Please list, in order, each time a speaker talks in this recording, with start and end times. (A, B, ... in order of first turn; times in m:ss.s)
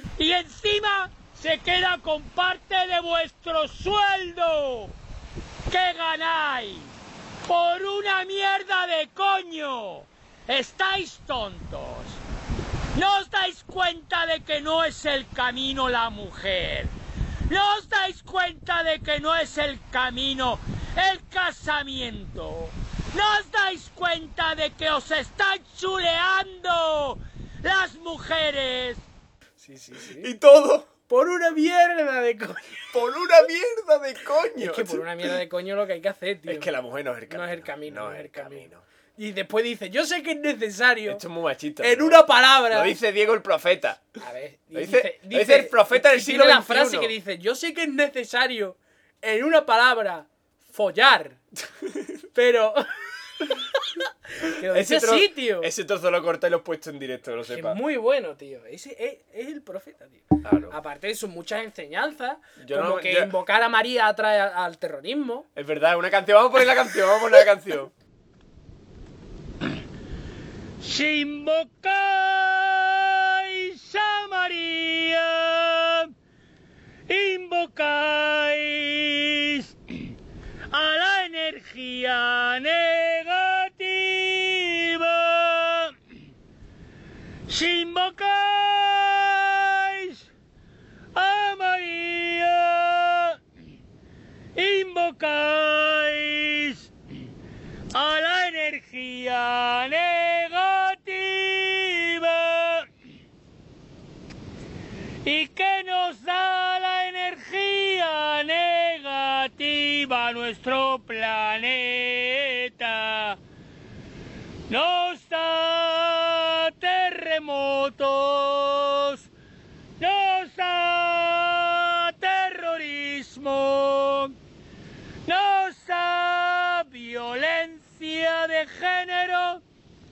0:00.2-0:04.9 A
0:05.7-0:06.9 A
0:07.4-0:12.2 A
0:12.9-0:16.9 A
0:17.5-0:29.0 A
0:29.6-0:30.3 B
0:30.2-0:30.9 C
0:31.1-0:32.9 B
0:32.9-0:35.4 C
0:34.6-0:36.7 B
0:36.5-0:38.8 C
0:37.3-0:41.2 B
0:41.1-0:44.2 C
0:41.8-0:43.0 B
0:44.2-0:51.4 B
0:44.7-0:47.1 C
0:51.8-0:52.2 C
0:52.3-0:55.7 B
0:54.4-0:57.8 C
0:57.5-1:05.5 B
1:00.4-1:00.8 C
1:02.6-1:03.3 C
1:05.6-1:07.9 C
1:10.8-1:16.1 A
1:17.1-1:20.1 A
1:20.7-1:26.0 A
1:27.5-1:30.2 A
1:31.1-1:33.4 A
1:34.6-1:36.9 A
1:37.9-1:42.9 A
1:45.2-1:53.4 A
1:54.7-1:59.3 A
2:00.0-2:04.4 A
2:05.2-2:09.6 A